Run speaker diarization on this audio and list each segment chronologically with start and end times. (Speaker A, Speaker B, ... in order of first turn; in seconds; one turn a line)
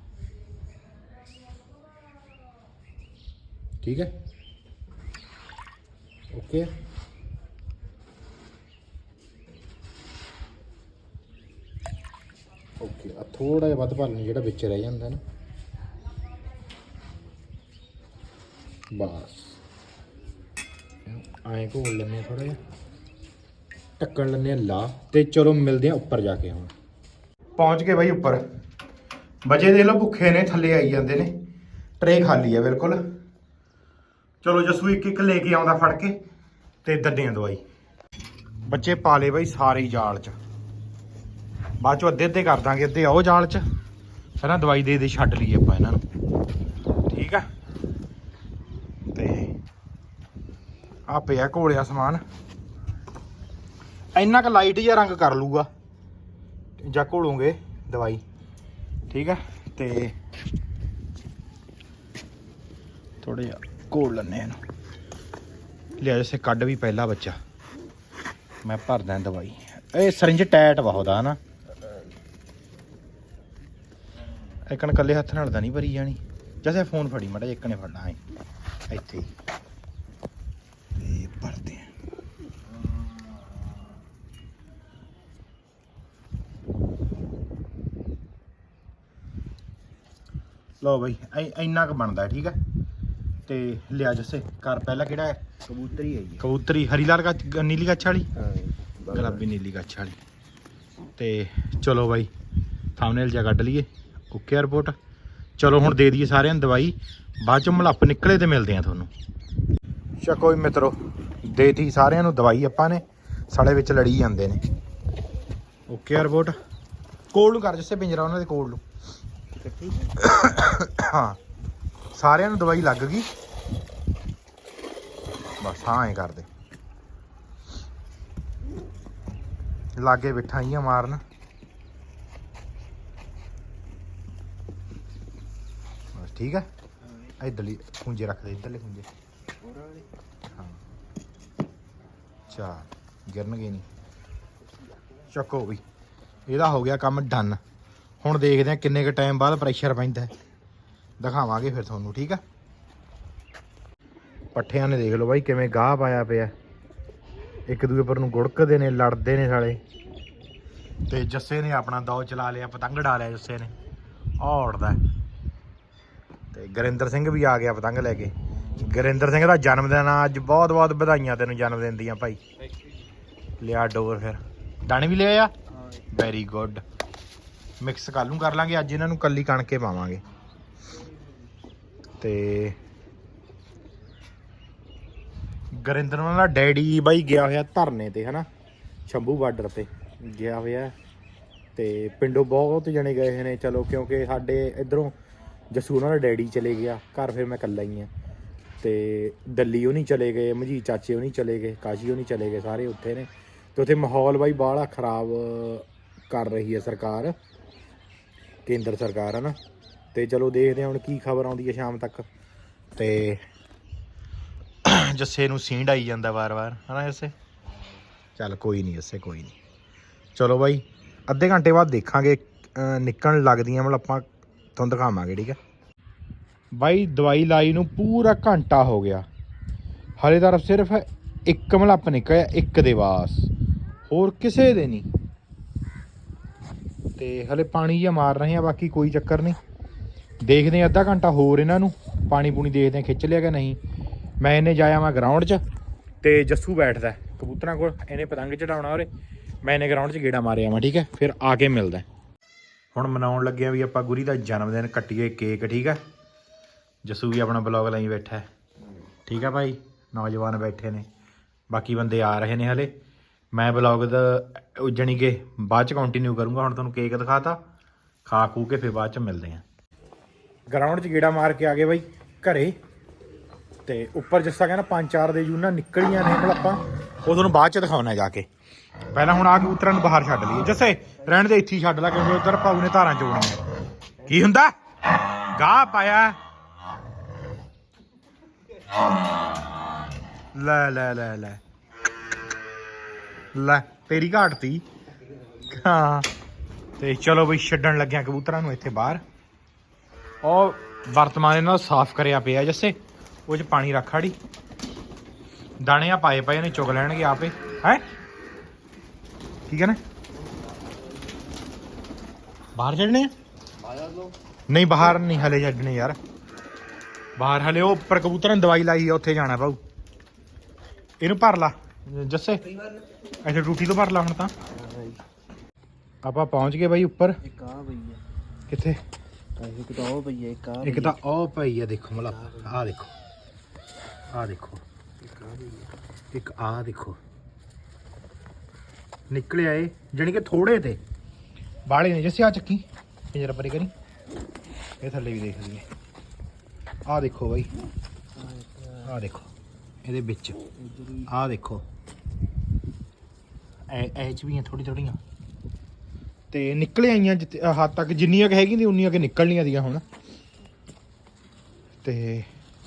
Speaker A: 3.8-4.1
Speaker A: 6.3-6.7
Speaker A: 12.8-15.2
Speaker A: 18.9-19.6
Speaker A: 21.0-22.6
Speaker A: 24.0-26.7
Speaker A: 27.6-28.4
Speaker A: 29.4-31.3
Speaker A: 32.0-33.0
Speaker A: 34.4-36.2
Speaker A: 36.8-37.6
Speaker A: 38.7-40.4
Speaker A: 41.8-43.6
Speaker A: 44.4-46.0
Speaker A: 47.1-47.5
Speaker A: 49.1-49.5
Speaker A: 51.1-52.2
Speaker A: 54.1-55.7
Speaker A: 56.8-58.2
Speaker A: 59.1-60.1
Speaker A: 63.2-64.6
Speaker A: 66.0-67.4
Speaker A: 68.6-71.4
Speaker A: 74.7-78.2
Speaker A: 78.9-79.3
Speaker A: 81.0-81.9
Speaker A: 90.8-92.6
Speaker A: 93.5-95.6
Speaker B: 95.7-96.4
Speaker A: 96.3-98.3
Speaker B: 98.4-99.3
Speaker A: 99.1-100.2
Speaker A: 101.2-102.3
Speaker A: 103.0-105.0
Speaker A: 105.6-109.1
Speaker A: 110.2-114.6
Speaker A: 115.9-116.6
Speaker A: 117.3-118.8
Speaker B: 119.6-120.2
Speaker A: 120.2-121.4
Speaker A: 122.1-123.3
Speaker A: 125.6-126.5
Speaker A: 129.9-131.2
Speaker A: 136.1-136.7
Speaker A: 137.4-139.1
Speaker B: 139.6-140.1
Speaker A: 140.5-140.8
Speaker A: 142.5-143.9
Speaker A: 145.3-145.8
Speaker A: 146.4-147.6
Speaker A: 148.2-150.3
Speaker A: 151.2-152.4
Speaker A: 154.5-156.5
Speaker A: 157.7-159.8
Speaker A: 161.1-163.7
Speaker A: 164.4-165.0
Speaker A: 166.5-172.4
Speaker A: 173.6-176.8
Speaker A: 177.8-180.2
Speaker A: 182.2-182.8
Speaker A: 185.7-188.4
Speaker A: 189.1-190.9
Speaker A: 191.7-195.1
Speaker A: 195.7-198.1
Speaker A: 198.8-207.3
Speaker A: 208.7-209.6
Speaker A: 210.1-212.3
Speaker A: 212.9-213.4
Speaker A: 214.8-217.3
Speaker A: 218.3-219.6
Speaker A: 220.3-225.6
Speaker A: 226.7-229.2
Speaker A: 230.2-233.5
Speaker A: 234.1-235.1
Speaker A: 237.2-239.6
Speaker A: 240.4-243.8
Speaker A: 244.4-245.6
Speaker A: 246.2-249.1
Speaker A: 249.6-252.1
Speaker A: 252.9-256.0
Speaker A: 257.0-258.5
Speaker A: 259.2-261.1
Speaker A: 261.7-262.9
Speaker A: 263.5-267.6
Speaker A: 268.2-269.6
Speaker A: 270.7-272.8
Speaker A: 273.8-278.5
Speaker A: 279.1-283.6
Speaker A: 284.2-284.7
Speaker A: 285.4-286.4
Speaker A: 290.5-291.6
Speaker A: 293.5-294.9
Speaker A: 295.6-296.3
Speaker A: 297.0-299.2
Speaker A: 300.4-304.4
Speaker A: 305.8-308.0
Speaker A: 309.7-310.0
Speaker A: 312.8-313.3
Speaker B: 313.8-314.3
Speaker A: 314.7-316.2
Speaker A: 317.4-319.8
Speaker A: 321.2-322.7
Speaker A: 323.4-324.5
Speaker B: 324.8-325.2
Speaker A: 326.2-327.4
Speaker B: 327.4-328.2
Speaker A: 328.7-329.0
Speaker B: 329.6-331.1
Speaker A: 330.8-333.1
Speaker A: 334.3-334.8
Speaker B: 335.2-335.9
Speaker A: 336.3-337.2
Speaker A: 339.3-341.0
Speaker A: 341.9-343.9
Speaker A: 345.0-345.9
Speaker A: 347.1-347.7
Speaker B: 348.4-349.1
Speaker A: 349.0-349.5
Speaker A: 350.0-350.7
Speaker B: 350.8-351.3
Speaker A: 351.2-351.9
Speaker A: 353.9-355.2
Speaker A: 356.5-360.0
Speaker A: 362.0-362.5